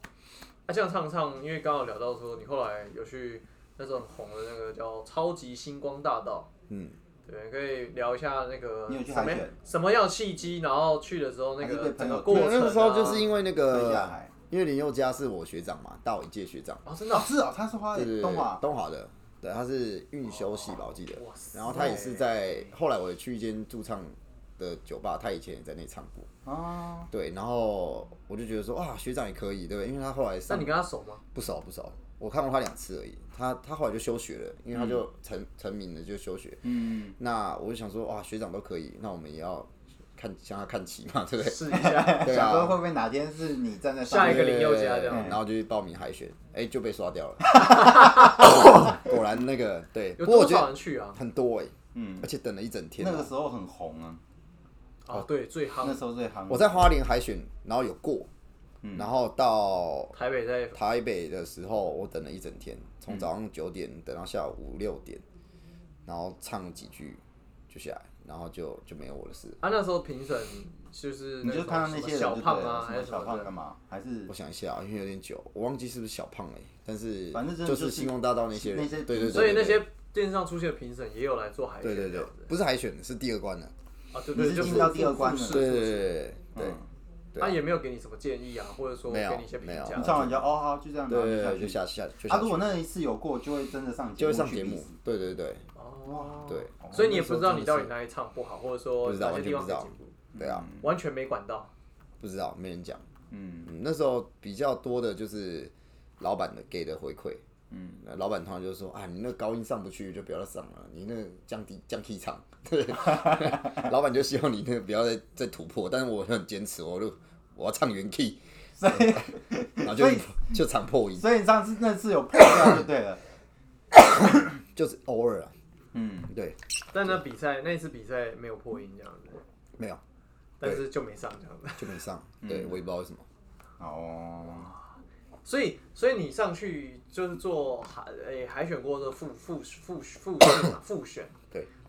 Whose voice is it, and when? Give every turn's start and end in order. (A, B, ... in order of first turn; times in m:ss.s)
0:00.7-0:06.5 A
0:06.7-0:07.0 B
0:07.3-0:13.3 A
0:08.9-0:09.6 C
0:11.6-0:12.7 C
0:12.3-0:16.8 B
0:13.7-0:14.3 C
0:16.9-0:17.3 A
0:17.1-0:18.6 C
0:17.9-0:26.3 B
0:20.6-0:22.3 A
0:26.5-0:27.1 C
0:27.1-0:30.7 B
0:30.5-0:31.2 A
0:31.3-0:42.8 B
0:34.7-0:35.0 C
0:36.6-0:37.2 C
0:41.4-0:42.3 A
0:41.7-0:45.4 C
0:44.0-0:45.3 A
0:44.1-0:53.3 B
0:50.2-0:51.2 A
0:51.9-0:52.3 C
0:53.0-0:54.2 C
0:55.1-0:56.0 A
0:55.8-0:56.9 C
0:56.5-0:58.3 B
0:58.8-0:59.1 C
0:59.0-1:00.2 B
1:00.1-1:00.8 A
1:00.7-1:05.2 B
1:06.1-1:09.6 B
1:09.6-1:13.5 A
1:11.4-1:14.3 C
1:14.3-1:19.8 B
1:17.3-1:19.8 C
1:19.3-1:22.5 A
1:21.8-1:23.7 B
1:24.1-1:26.2 A
1:24.3-1:25.8 C
1:24.6-1:25.0 B
1:25.5-1:26.8 B
1:26.6-1:26.9 C
1:27.3-1:27.6 B
1:27.4-1:30.4 A
1:29.1-1:30.3 B
1:29.9-1:35.0 C
1:31.1-1:32.7 B
1:34.2-1:35.7 B
1:35.8-1:40.2 A
1:36.1-1:37.0 C
1:36.5-1:37.9 B
1:39.0-1:40.7 B
1:40.3-1:40.9 C
1:40.8-1:41.7 A
1:42.2-1:43.0 B
1:43.3-1:43.7 C
1:43.6-1:47.4 B
1:47.7-1:48.0 C
1:48.0-1:59.2 B
1:53.2-1:53.8 C
1:58.8-2:00.6 C
1:59.8-2:01.3 B
2:01.2-2:03.2 C
2:03.9-2:05.5 B
2:05.9-2:06.3 C
2:06.3-2:07.2 B
2:06.9-2:09.4 A
2:10.6-2:12.0 A
2:11.8-2:13.2 B
2:12.4-2:12.8 C
2:13.8-2:14.8 C
2:15.4-2:21.4 A